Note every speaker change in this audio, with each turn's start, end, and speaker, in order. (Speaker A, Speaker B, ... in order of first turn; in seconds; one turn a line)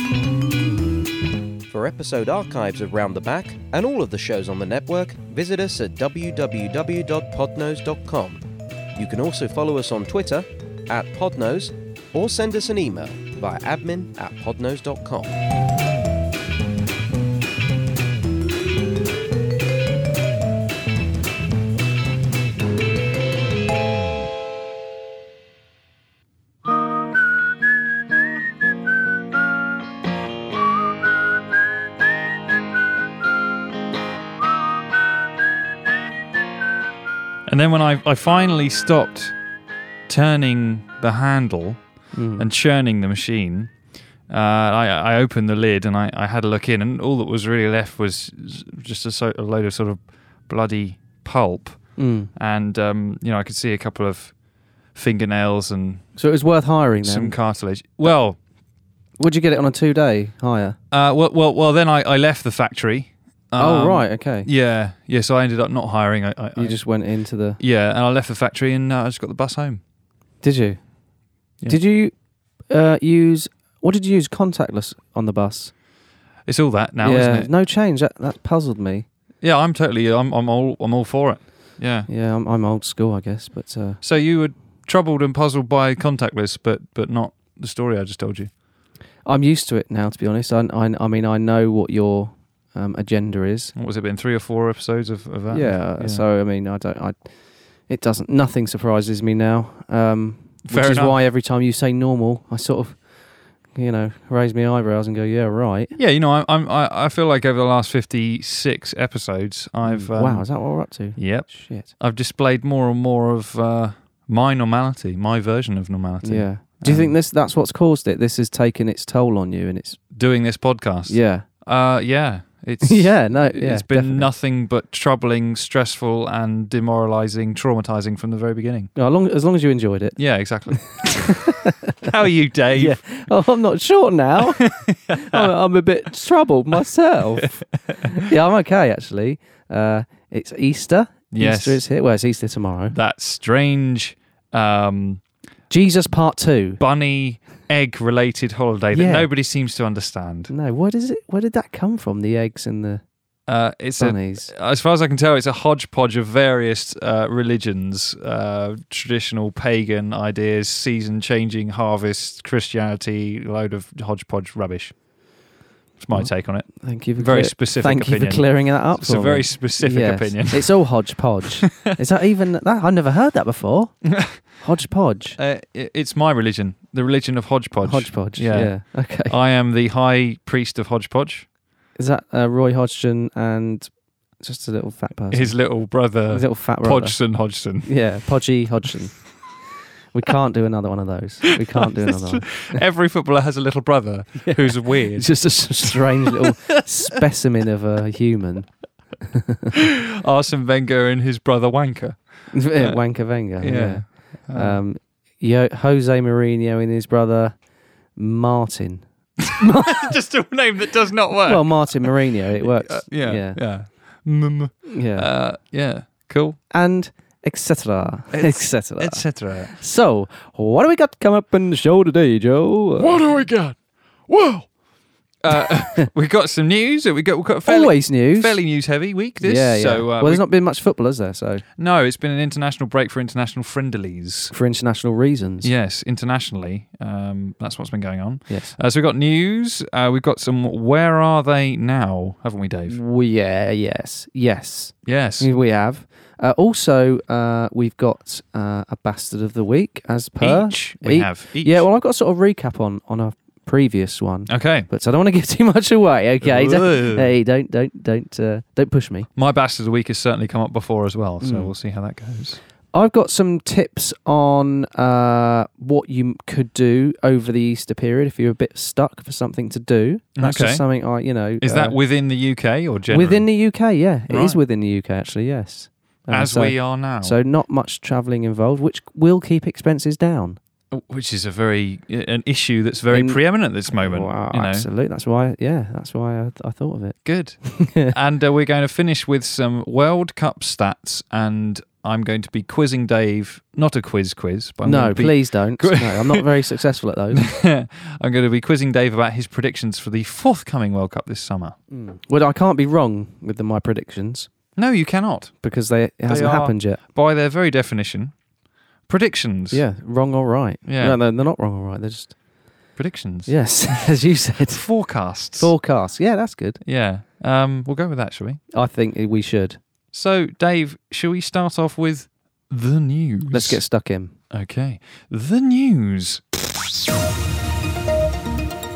Speaker A: 1.7-8.4
Speaker A: 8.9-15.3
Speaker B: 37.5-39.4
Speaker B: 40.1-41.8
Speaker C: 42.1-42.5
Speaker B: 42.4-43.7
Speaker B: 44.3-51.8
Speaker C: 52.0-52.3
Speaker B: 52.4-54.3
Speaker B: 55.0-56.0
Speaker C: 56.2-57.4
Speaker B: 57.0-58.4
Speaker C: 59.2-60.8
Speaker B: 60.9-66.8
Speaker C: 63.6-64.5
Speaker C: 66.6-67.6
Speaker B: 67.6-69.8
Speaker C: 70.4-70.8
Speaker C: 71.7-72.1
Speaker C: 72.7-75.7
Speaker B: 76.5-77.5
Speaker C: 77.0-79.1
Speaker B: 79.4-82.1
Speaker C: 82.1-84.0
Speaker B: 84.0-88.5
Speaker C: 89.3-93.7
Speaker B: 93.8-96.2
Speaker C: 95.5-97.2
Speaker C: 97.9-103.0
Speaker B: 100.7-101.2
Speaker C: 103.8-105.9
Speaker B: 106.0-110.5
Speaker C: 109.9-111.9
Speaker B: 111.2-117.2
Speaker C: 116.2-120.0
Speaker B: 120.1-128.9
Speaker C: 121.1-121.5
Speaker C: 122.8-124.3
Speaker C: 129.0-130.2
Speaker B: 130.2-133.0
Speaker C: 130.7-132.1
Speaker C: 132.8-142.9
Speaker B: 134.6-135.5
Speaker B: 137.4-138.3
Speaker B: 141.3-141.8
Speaker B: 142.9-145.2
Speaker C: 145.7-146.8
Speaker B: 146.8-150.5
Speaker C: 148.9-149.3
Speaker C: 150.5-153.0
Speaker B: 153.5-164.9
Speaker C: 154.0-154.5
Speaker B: 166.0-170.7
Speaker C: 166.1-174.0
Speaker B: 171.7-171.9
Speaker B: 174.1-174.4
Speaker C: 174.6-175.4
Speaker B: 175.4-181.5
Speaker C: 177.8-179.3
Speaker C: 182.0-185.6
Speaker B: 185.3-187.9
Speaker C: 186.3-187.2
Speaker C: 187.8-189.2
Speaker C: 190.1-192.8
Speaker B: 191.7-196.5
Speaker C: 194.4-198.7
Speaker C: 199.2-199.8
Speaker B: 199.7-202.2
Speaker C: 202.5-207.5
Speaker B: 203.6-204.8
Speaker C: 208.2-210.1
Speaker B: 209.5-216.6
Speaker C: 211.5-213.6
Speaker C: 214.9-215.3
Speaker C: 216.7-223.2
Speaker B: 218.3-219.7
Speaker B: 223.0-223.8
Speaker B: 224.3-224.7
Speaker B: 225.4-230.4
Speaker C: 225.7-226.1
Speaker C: 227.7-228.6
Speaker C: 229.4-231.6
Speaker B: 231.8-234.5
Speaker C: 234.5-235.7
Speaker B: 235.6-243.0
Speaker C: 242.9-259.3
Speaker B: 245.1-245.5
Speaker B: 250.4-251.9
Speaker B: 254.5-254.9
Speaker B: 256.4-257.3
Speaker B: 259.4-262.6
Speaker C: 261.4-261.7
Speaker C: 262.9-272.0
Speaker B: 270.4-270.8
Speaker B: 271.6-273.4
Speaker C: 273.1-280.6
Speaker B: 274.3-274.6
Speaker B: 276.3-277.4
Speaker B: 280.9-284.9
Speaker C: 283.1-283.4
Speaker C: 283.9-288.1
Speaker B: 287.2-296.5
Speaker C: 294.8-297.5
Speaker B: 297.3-301.8
Speaker C: 301.9-304.5
Speaker B: 304.8-305.5
Speaker C: 305.6-307.0
Speaker B: 306.3-308.3
Speaker B: 309.1-309.8
Speaker C: 309.7-312.4
Speaker B: 310.9-311.2
Speaker B: 313.0-313.6
Speaker C: 313.5-314.8
Speaker B: 314.7-315.7
Speaker C: 315.6-316.8
Speaker B: 316.9-318.6
Speaker C: 318.7-319.8
Speaker B: 320.1-323.8
Speaker C: 323.5-324.3
Speaker B: 324.5-327.0